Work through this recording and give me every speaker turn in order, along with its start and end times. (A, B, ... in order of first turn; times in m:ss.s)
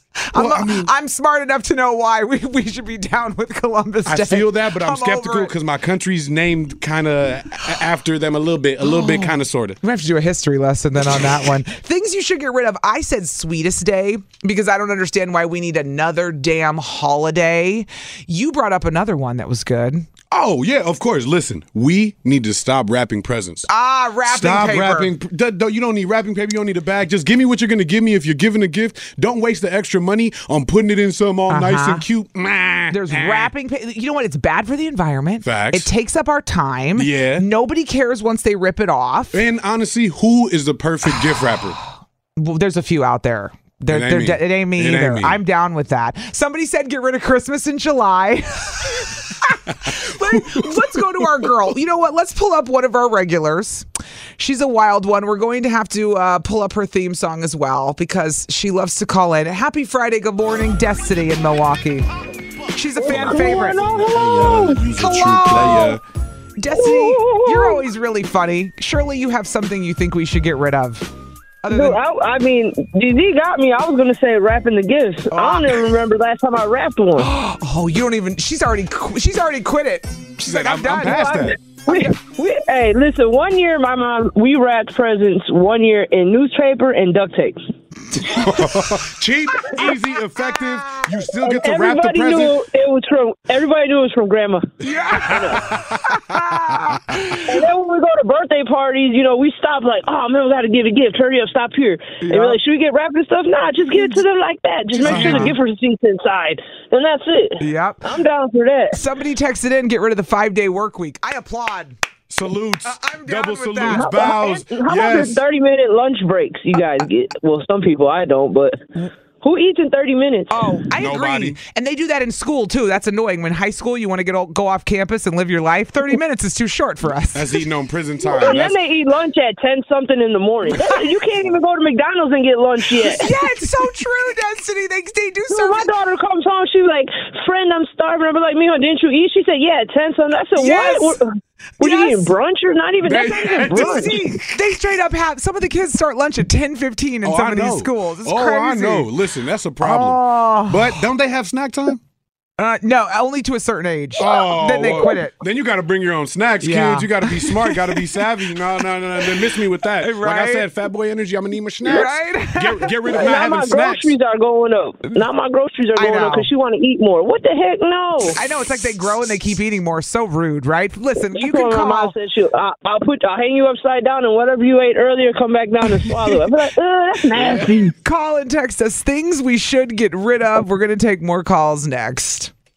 0:00.3-0:05.5 A
0:00.3-0:00.9 B
0:04.0-0:09.8 B
0:08.8-0:20.1 A
0:20.3-0:23.7 B
0:23.7-0:25.1 A
0:24.2-0:33.5 B
0:31.5-0:32.0 A
0:32.9-0:39.4 A
0:35.4-0:35.9 B
0:37.0-0:37.4 B
0:39.3-0:41.8 B
0:42.4-0:53.8 A
0:43.9-0:45.4 B
0:49.8-0:51.5 B
0:54.4-1:02.0 A
1:02.7-1:03.9 A
1:03.0-1:04.8 C
1:03.1-1:06.0 B
1:04.8-1:06.0 A
1:06.6-1:11.1 A
1:06.7-1:07.8 C
1:11.6-1:12.0 A
1:11.7-1:17.3 C
1:15.3-1:15.9 A
1:17.2-1:22.1 A
1:20.4-1:21.6 B
1:21.0-1:27.6 C
1:28.2-1:32.6 B
1:29.7-1:31.0 A
1:31.4-1:34.7 C
1:34.8-1:37.6 A
1:34.9-1:37.4 B
1:35.2-1:35.6 C
1:37.5-1:49.0 C
1:42.2-1:42.6 A
1:45.0-1:45.6 A
1:45.0-1:45.5 B
1:47.6-1:48.0 A
1:48.9-1:51.9 A
1:52.3-1:55.4 B
1:52.8-1:54.3 A
1:53.8-1:58.9 C
1:59.4-2:00.6 C
2:00.5-2:07.6 A
2:01.0-2:01.6 B
2:07.3-2:08.8 B
2:08.2-2:13.4 C
2:13.0-2:15.9 A
2:15.5-2:21.2 C
2:20.6-2:21.2 A
2:21.8-2:22.3 A
2:21.8-2:24.2 C
2:23.0-2:24.2 B
2:23.2-2:29.1 A
2:27.2-2:32.0 B
2:29.8-2:31.0 A
2:32.6-2:35.4 A
2:34.2-2:44.1 B
2:36.6-2:38.1 A
2:40.0-2:40.7 A
2:41.8-2:43.2 A
2:43.1-2:48.4 C
2:46.0-2:46.5 A
2:48.3-2:52.1 A
2:51.3-2:57.9 C
2:57.4-2:57.7 B
2:58.0-3:02.5 A